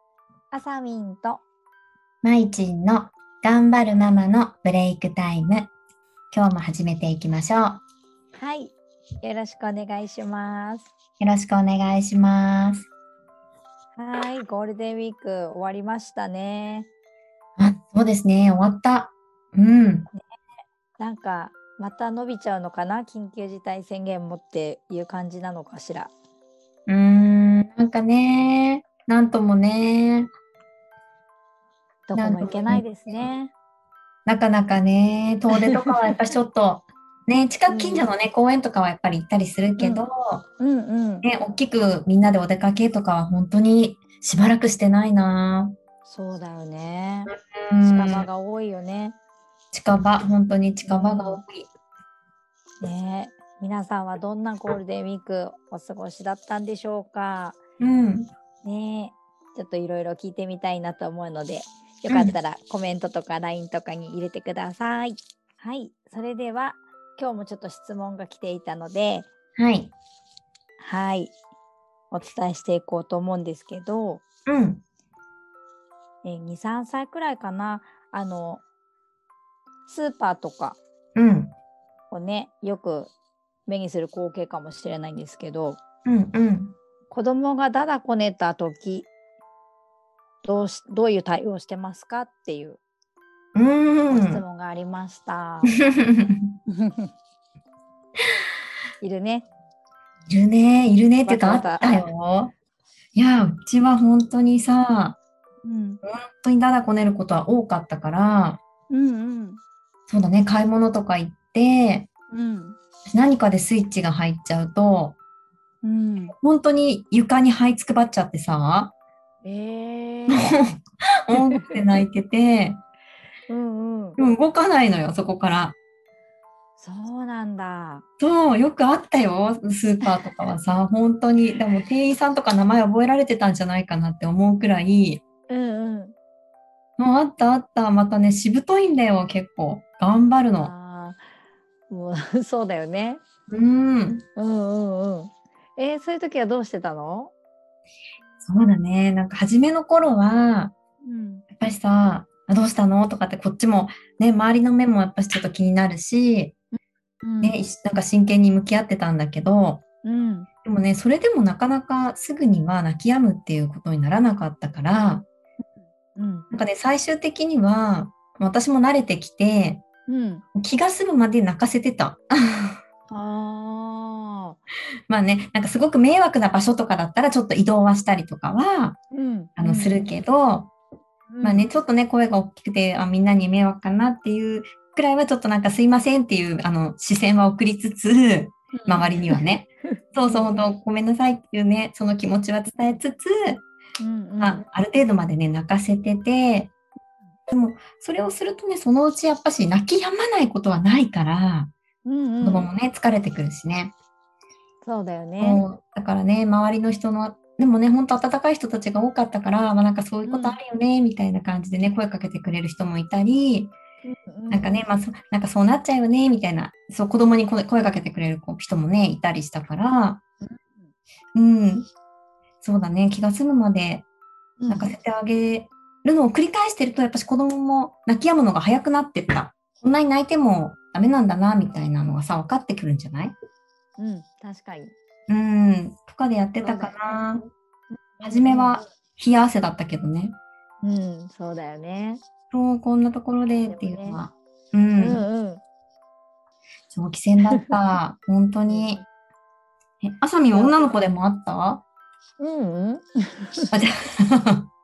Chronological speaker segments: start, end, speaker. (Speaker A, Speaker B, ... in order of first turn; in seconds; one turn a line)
Speaker A: 0.5-1.4
Speaker B: 2.2-5.7
Speaker B: 6.3-7.8
Speaker A: 8.4-10.9
Speaker B: 11.2-12.9
Speaker A: 14.0-16.9
Speaker B: 17.6-20.1
Speaker A: 21.0-26.1
Speaker B: 26.9-30.3
Speaker A: 32.1-33.5
Speaker B: 32.1-33.2
Speaker B: 34.3-40.5
Speaker A: 35.7-36.1
Speaker A: 37.7-38.1
Speaker A: 39.8-40.0
Speaker A: 40.6-41.3
Speaker B: 41.2-45.7
Speaker A: 46.0-49.2
Speaker B: 47.3-48.3
Speaker B: 49.7-51.7
Speaker A: 50.9-51.4
Speaker A: 52.8-57.6
Speaker B: 57.8-58.3
Speaker A: 58.6-69.3
Speaker B: 62.1-62.4
Speaker B: 69.6-69.9
Speaker A: 70.8-71.3
Speaker A: 72.1-74.2
Speaker B: 74.5-74.8
Speaker A: 76.2-78.6
Speaker A: 79.9-80.8
Speaker B: 81.2-81.5
Speaker A: 82.1-83.1
Speaker A: 83.7-85.8
Speaker B: 86.0-86.8
Speaker A: 87.1-89.1
Speaker A: 90.4-92.8
Speaker B: 93.5-94.4
Speaker A: 94.1-95.8
Speaker B: 95.7-96.5
Speaker A: 96.7-97.1
Speaker A: 99.0-99.5
Speaker B: 100.3-102.5
Speaker A: 101.2-102.1
Speaker B: 103.2-105.2
Speaker A: 105.6-106.0
Speaker B: 106.0-108.6
Speaker A: 108.9-109.6
Speaker B: 110.1-112.1
Speaker A: 112.3-112.8
Speaker B: 113.1-115.2
Speaker A: 115.8-116.3
Speaker B: 116.4-118.9
Speaker A: 119.4-120.6
Speaker B: 120.4-122.8
Speaker A: 121.3-121.8
Speaker A: 123.5-124.2
Speaker B: 124.2-125.8
Speaker A: 126.8-128.0
Speaker B: 128.2-135.2
Speaker A: 135.5-136.2
Speaker B: 137.0-140.7
Speaker A: 140.5-141.2
Speaker A: 141.9-143.2
Speaker B: 143.5-144.2
Speaker A: 144.4-147.3
Speaker B: 148.4-150.7
Speaker A: 151.0-151.4
Speaker B: 151.5-156.6
Speaker A: 157.2-157.6
Speaker B: 157.4-159.8
Speaker A: 160.0-160.5
Speaker B: 160.7-165.3
Speaker A: 166.2-166.5
Speaker B: 166.5-169.8
Speaker A: 170.1-170.4
Speaker B: 170.6-172.8
Speaker A: 173.1-174.6
Speaker B: 175.1-179.0
Speaker A: 179.1-180.1
Speaker B: 179.6-180.7
Speaker A: 181.3-181.7
Speaker B: 181.4-193.6
Speaker A: 188.7-190.7
Speaker A: 194.0-194.6
Speaker B: 194.4-196.7
Speaker B: 197.5-201.7
Speaker A: 202.1-202.7
Speaker B: 202.4-203.9
Speaker A: 204.8-205.6
Speaker B: 205.4-213.7
Speaker A: 210.3-210.6
Speaker A: 214.1-214.7
Speaker B: 214.5-220.2
Speaker A: 220.4-220.9
Speaker B: 221.3-221.9
Speaker B: 222.6-224.1
Speaker A: 224.6-224.9
Speaker B: 224.7-233.3
Speaker A: 234.0-234.9
Speaker B: 235.3-237.4
Speaker A: 236.6-237.0
Speaker A: 237.9-238.8
Speaker B: 238.2-240.4
Speaker A: 240.8-242.2
Speaker B: 242.5-245.2
Speaker A: 243.7-244.2
Speaker A: 245.0-245.6
Speaker B: 246.9-249.0
Speaker A: 248.7-249.1
Speaker B: 250.0-251.8
Speaker A: 250.5-250.9
Speaker A: 252.4-253.7
Speaker B: 253.7-254.7